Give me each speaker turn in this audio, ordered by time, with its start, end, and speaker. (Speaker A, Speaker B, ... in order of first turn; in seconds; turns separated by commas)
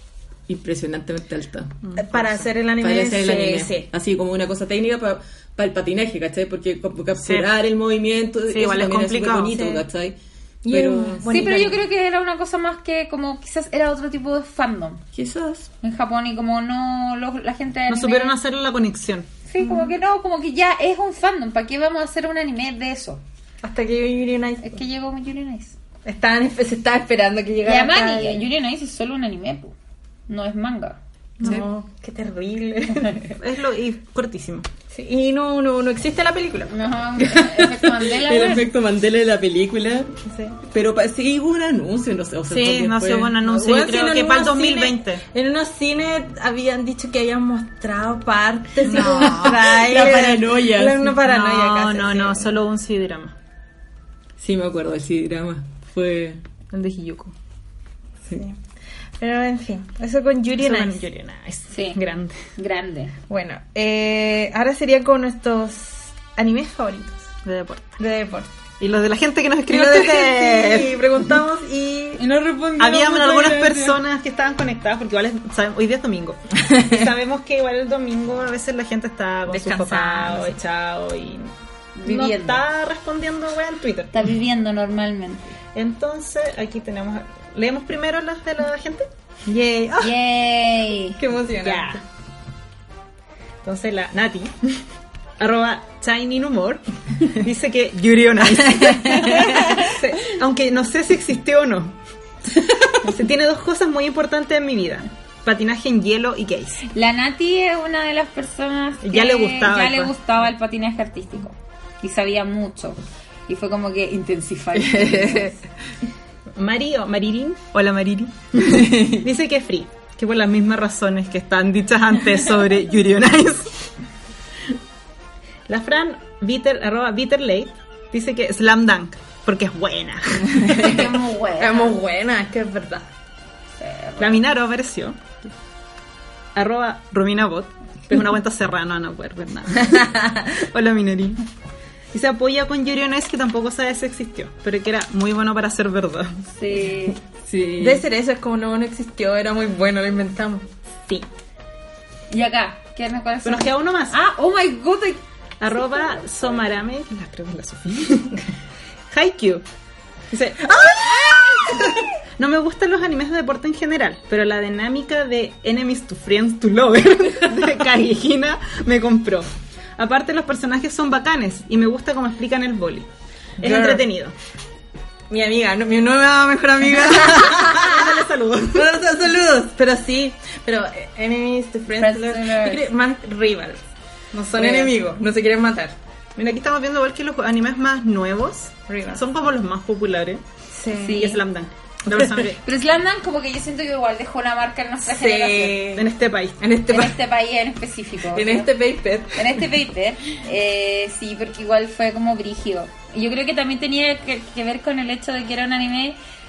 Speaker A: 0.5-1.7, Speaker B: 1.8-2.4, Speaker C: 2.0-3.9, Speaker A: 2.8-11.3, Speaker B: 7.2-7.5, Speaker B: 8.5-9.6, Speaker C: 9.5-9.8, Speaker C: 10.6-11.8, Speaker D: 11.2-15.0, Speaker A: 15.1-15.7, Speaker D: 15.8-18.4, Speaker B: 17.9-19.3, Speaker D: 19.5-23.2, Speaker C: 19.6-19.9, Speaker C: 23.6-24.8, Speaker D: 24.6-25.7, Speaker C: 26.0-28.5, Speaker D: 27.6-29.7, Speaker D: 30.3-31.0, Speaker C: 31.4-33.4, Speaker B: 33.4-34.6, Speaker C: 34.9-36.7, Speaker D: 36.7-38.7, Speaker A: 37.3-43.3, Speaker C: 40.3-40.5, Speaker B: 42.5-45.2, Speaker C: 43.4-52.5, Speaker B: 48.8-49.7, Speaker A: 48.9-51.1, Speaker B: 51.2-53.3, Speaker A: 54.4-56.4, Speaker B: 56.7-57.3, Speaker C: 58.3-58.5, Speaker C: 59.2-61.0, Speaker B: 60.6-62.4, Speaker D: 61.7-62.0, Speaker D: 62.5-63.1, Speaker C: 63.3-67.3, Speaker B: 67.4-68.0, Speaker C: 68.0-68.5, Speaker B: 68.8-71.0, Speaker C: 69.7-72.2, Speaker D: 72.2-73.9, Speaker B: 72.8-81.5, Speaker C: 76.6-76.9, Speaker C: 79.5-80.5, Speaker D: 82.0-82.6, Speaker B: 82.0-84.1, Speaker D: 84.1-85.6, Speaker B: 85.7-89.1, Speaker C: 89.5-90.1, Speaker D: 90.0-91.2, Speaker C: 91.2-92.0, Speaker B: 91.6-92.0, Speaker B: 93.6-94.8, Speaker B: 95.4-102.0, Speaker C: 98.7-100.3, Speaker D: 99.5-99.8, Speaker B: 103.0-106.8, Speaker D: 106.8-115.6, Speaker B: 109.0-110.1, Speaker C: 114.7-115.5, Speaker B: 116.5-123.8, Speaker C: 118.6-119.2, Speaker B: 125.7-130.8, Speaker C: 130.5-133.1, Speaker D: 130.7-132.0, Speaker D: 133.8-134.4, Speaker B: 134.2-135.5, Speaker B: 136.5-141.4, Speaker C: 139.9-140.5, Speaker B: 142.1-146.3, Speaker D: 146.6-147.2, Speaker A: 147.4-148.0, Speaker C: 147.8-150.6, Speaker D: 152.3-155.2, Speaker B: 153.4-154.2, Speaker B: 155.6-158.4, Speaker B: 159.1-159.6, Speaker B: 160.3-173.1, Speaker C: 160.6-162.0, Speaker C: 173.6-174.0, Speaker B: 173.6-174.3, Speaker C: 175.3-178.2, Speaker B: 177.1-179.0, Speaker C: 178.7-183.8, Speaker D: 182.0-182.9, Speaker C: 184.3-185.9, Speaker B: 184.6-184.9, Speaker B: 186.4-190.4, Speaker C: 188.9-189.2, Speaker C: 190.7-191.2, Speaker D: 190.9-191.4, Speaker B: 191.1-192.6, Speaker D: 192.6-195.9, Speaker C: 195.0-196.1, Speaker B: 195.9-196.6, Speaker C: 196.6-197.2, Speaker D: 196.9-198.7, Speaker C: 198.3-199.6, Speaker D: 199.3-206.2